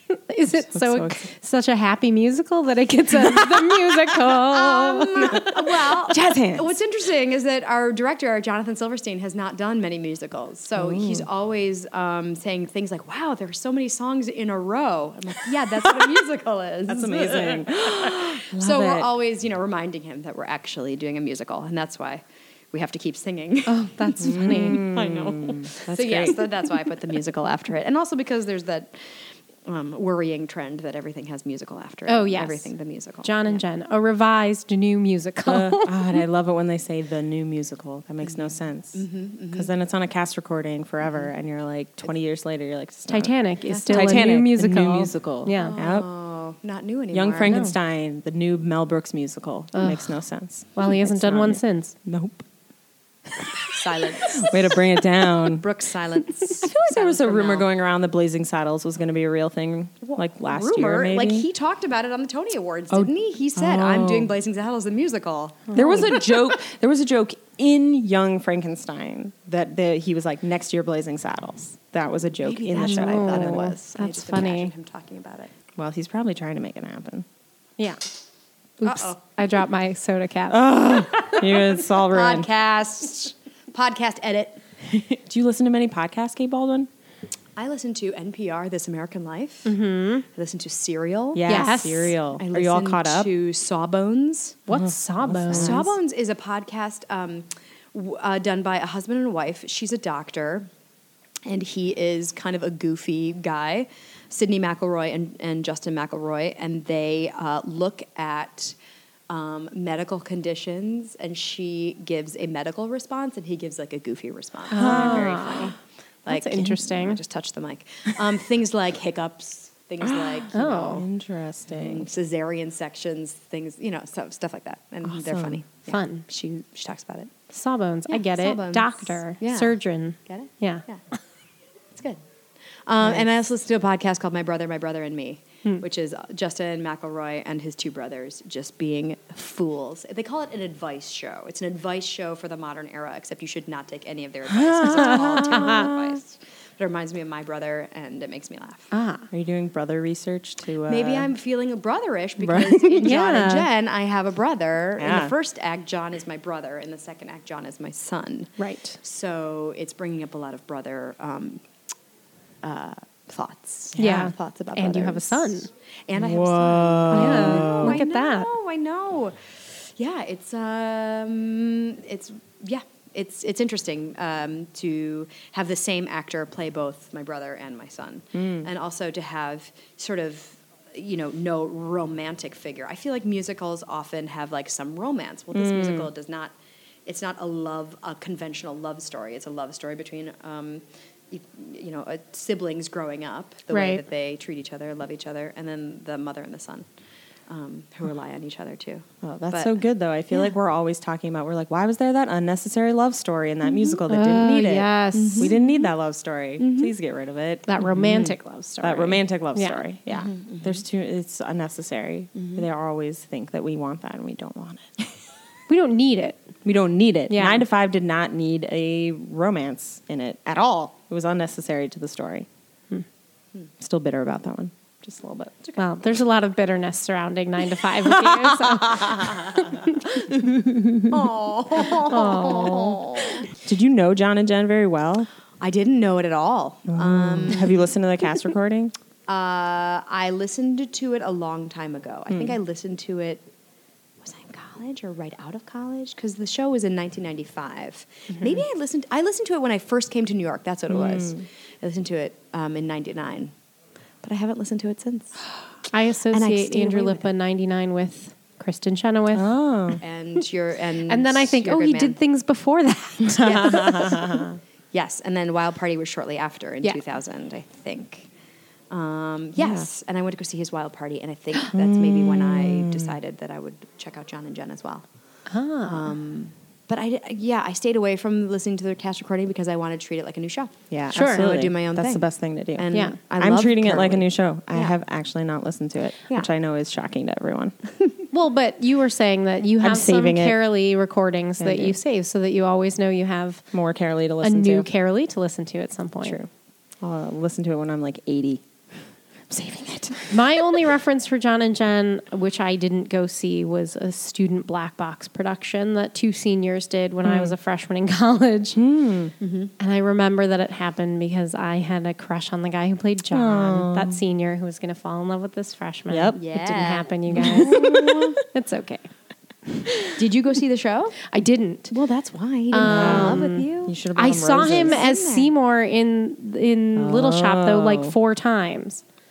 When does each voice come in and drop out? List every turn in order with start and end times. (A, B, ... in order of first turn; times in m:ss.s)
0:00.3-0:05.5 A
0:00.5-0:01.3 B
0:03.2-0:04.2 B
0:04.4-0:33.6 C
0:05.3-0:06.8 B
0:10.7-0:11.3 B
0:15.8-0:16.2 B
0:16.9-0:19.1 B
0:23.7-0:24.8 A
0:24.2-0:26.5 B
0:32.1-0:32.7 A
0:33.2-0:36.0 A
0:35.4-0:43.3 B
0:38.2-0:39.7 C
0:43.1-0:45.8 A
0:43.7-0:44.3 C
0:43.9-0:46.1 B
0:45.6-0:47.6 C
0:47.1-0:52.4 B
0:47.4-0:47.7 A
0:49.7-0:50.1 A
0:50.7-0:51.9 A
0:53.3-0:55.7 B
0:53.7-0:57.7 C
0:56.5-1:01.5 B
1:00.0-1:06.2 C
1:02.9-1:04.3 B
1:05.7-1:06.3 A
1:05.7-1:13.7 B
1:12.4-1:15.5 C
1:12.8-1:14.7 A
1:15.8-1:17.2 B
1:18.8-1:20.6 A
1:18.8-1:19.3 C
1:20.5-1:22.5 B
1:20.8-1:24.6 C
1:24.9-1:26.9 B
1:27.6-1:29.8 C
1:29.6-1:30.2 A
1:30.3-1:34.6 C
1:31.3-1:33.3 B
1:31.5-1:32.2 A
1:34.7-1:35.9 A
1:34.7-1:35.9 B
1:35.5-1:40.7 C
1:41.4-1:48.8 C
1:49.3-1:55.7 C
1:54.7-1:55.7 A
1:54.7-1:55.7 B
1:56.2-1:57.2 A
1:56.2-2:01.0 C
2:00.0-2:02.1 B
2:00.5-2:01.0 A
2:01.7-2:07.3 C
2:05.0-2:05.6 B
2:05.9-2:06.2 A
2:07.5-2:10.8 A
2:08.1-2:11.0 C
2:11.9-2:12.2 C
2:12.8-2:28.9 C
2:24.5-2:26.2 B
2:24.8-2:25.8 A
2:28.9-2:29.3 A
2:29.3-2:31.3 B
2:30.8-2:41.6 C
2:32.4-2:33.1 B
2:33.0-2:33.7 A
2:35.0-2:35.3 B
2:38.6-2:39.0 A
2:42.6-3:16.9 C
2:44.0-2:44.3 B
2:44.0-2:45.7 A
2:46.1-2:48.0 B
2:47.1-2:48.5 A
2:58.3-2:58.7 B
3:05.5-3:06.1 B
3:13.7-3:14.0 A
3:17.5-3:19.8 C
3:19.2-3:28.1 B
3:23.6-3:24.0 C
3:24.1-3:25.5 A
3:25.1-3:25.9 C
3:26.6-3:26.9 C
3:27.7-3:29.8 A
3:27.8-3:28.4 C
3:28.8-3:34.9 B
3:30.1-3:30.8 C
3:32.4-3:32.6 C
3:35.7-3:36.4 A
3:36.6-3:42.5 B
3:37.3-3:37.6 A
3:43.8-3:45.8 B
3:45.8-3:50.2 A
3:48.0-3:51.2 B
3:51.1-3:53.5 C
3:52.0-3:53.4 A
3:53.5-3:55.3 B
3:55.6-3:57.8 C
3:56.9-3:58.9 B
3:59.3-4:03.4 C
4:02.3-4:02.6 B
4:04.2-4:13.5 C
4:08.3-4:08.6 A
4:10.9-4:11.5 B
4:14.2-4:15.4 C
4:15.9-4:19.5 A
4:16.3-4:17.2 C
4:19.3-4:20.0 B
4:20.0-4:22.2 C
4:21.1-4:24.1 A
4:23.2-4:24.6 B
4:23.4-4:28.3 C
4:28.9-4:35.0 C
4:29.6-4:29.9 B
4:31.7-4:33.2 B
4:35.5-4:36.1 A
4:35.8-4:45.0 C
4:40.9-4:47.8 B
4:41.1-4:41.5 A
4:42.9-4:43.2 A
4:48.0-4:48.2 C
4:48.3-4:53.6 A
4:49.8-4:50.6 B
4:51.6-4:52.0 B
4:53.7-4:54.9 B
4:54.4-4:56.4 A
4:56.2-4:56.5 B
4:57.0-4:58.6 B
4:59.5-5:00.8 B
5:00.3-5:08.8 A
5:07.2-5:07.5 B
5:08.8-5:09.3 B
5:09.4-5:09.7 C
5:09.8-5:19.1 A
5:13.3-5:14.2 B
5:16.1-5:16.4 B
5:16.3-5:18.0 C
5:17.3-5:18.4 B
5:19.7-5:20.2 A
5:20.2-5:21.2 C
5:21.2-5:21.9 A
5:21.9-5:25.5 C
5:22.7-5:29.0 A
5:22.8-5:25.0 B
5:27.0-5:28.1 B